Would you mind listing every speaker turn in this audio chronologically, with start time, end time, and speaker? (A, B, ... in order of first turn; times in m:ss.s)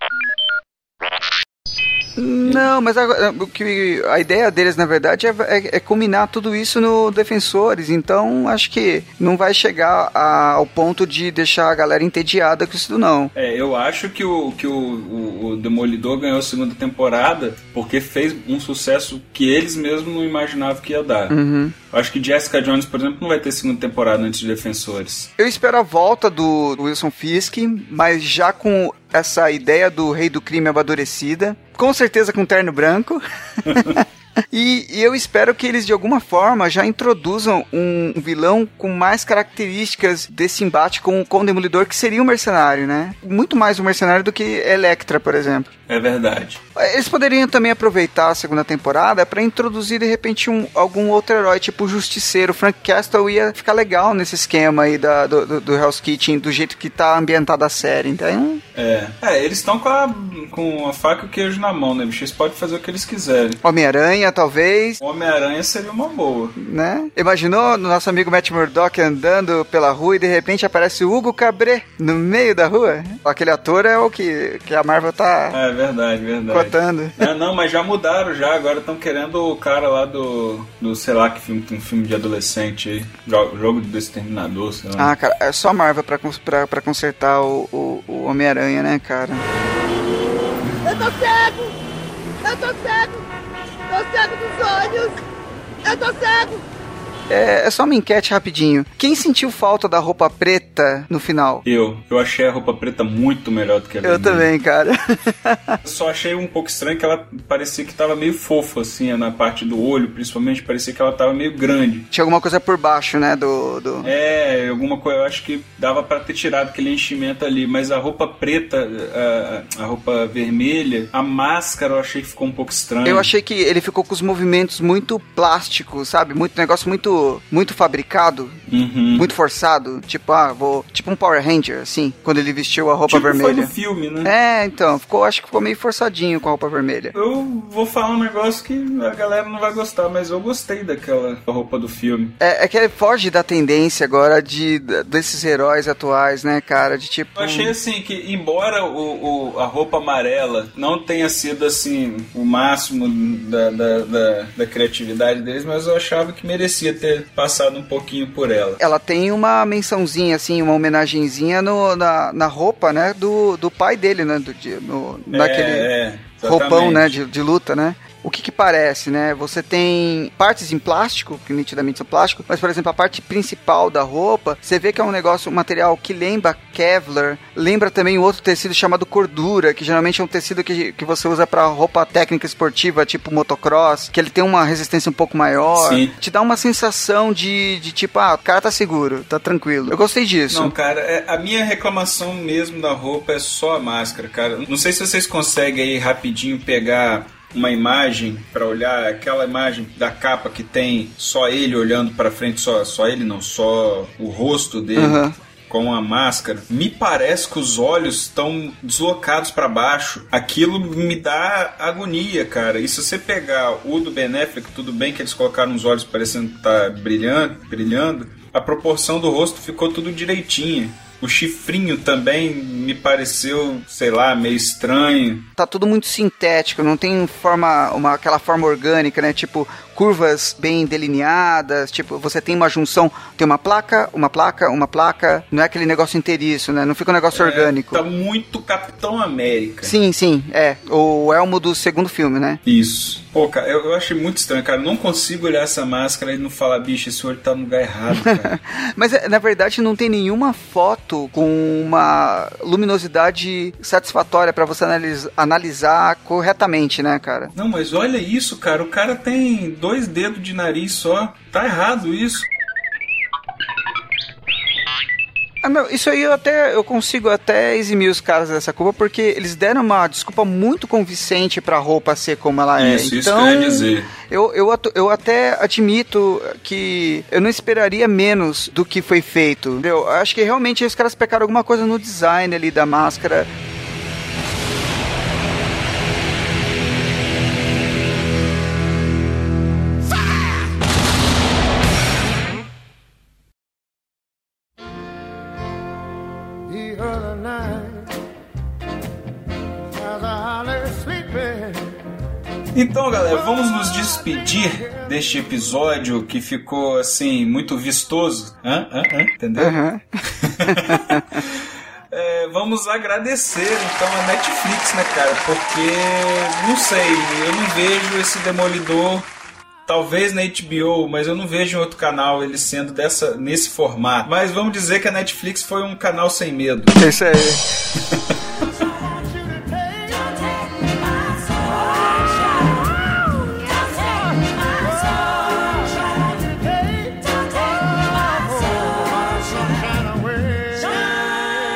0:02.2-0:13.3 A
0:13.3-0:21.3 B
0:21.3-0:21.7 A
0:21.9-0:25.3 B
0:25.4-0:45.7 A
0:33.7-0:34.0 B
0:45.9-0:46.6 B
0:46.8-0:58.6 A
0:58.7-1:03.6 B
1:03.6-1:05.0 A
1:05.0-1:06.6 B
1:06.6-1:15.6 A
1:15.5-1:25.1 B
1:16.5-1:17.3 A
1:25.0-1:29.4 A
1:30.8-1:31.7 C
1:32.4-1:33.2 C
1:33.9-1:35.2 C
1:35.8-1:36.6 C
1:37.3-1:41.6 A
1:41.6-1:44.5 B
1:44.0-1:45.8 A
1:45.8-1:52.1 B
1:52.1-1:54.1 A
1:54.0-2:03.3 B
2:03.0-2:08.6 A
2:08.7-2:09.3 B
2:09.1-2:13.7 A
2:13.1-2:14.3 B
2:14.2-2:17.1 A
2:17.1-2:22.3 B
2:22.4-2:27.7 A
2:27.4-2:38.8 B
2:38.8-2:45.9 A
2:45.3-2:47.2 B
2:46.4-3:10.7 A
3:05.8-3:06.1 B
3:10.5-3:45.5 B
3:25.0-3:25.3 A
3:45.6-3:58.0 A
3:57.3-4:00.0 B
3:59.8-4:02.6 A
4:02.6-4:08.6 B
4:08.2-4:17.5 A
4:17.6-4:22.5 B
4:25.6-4:43.5 A
4:32.8-4:34.1 B
5:02.7-5:09.8 B
5:09.6-5:11.3 A
5:10.3-5:19.3 B
5:19.9-5:27.0 B
5:27.0-5:27.6 A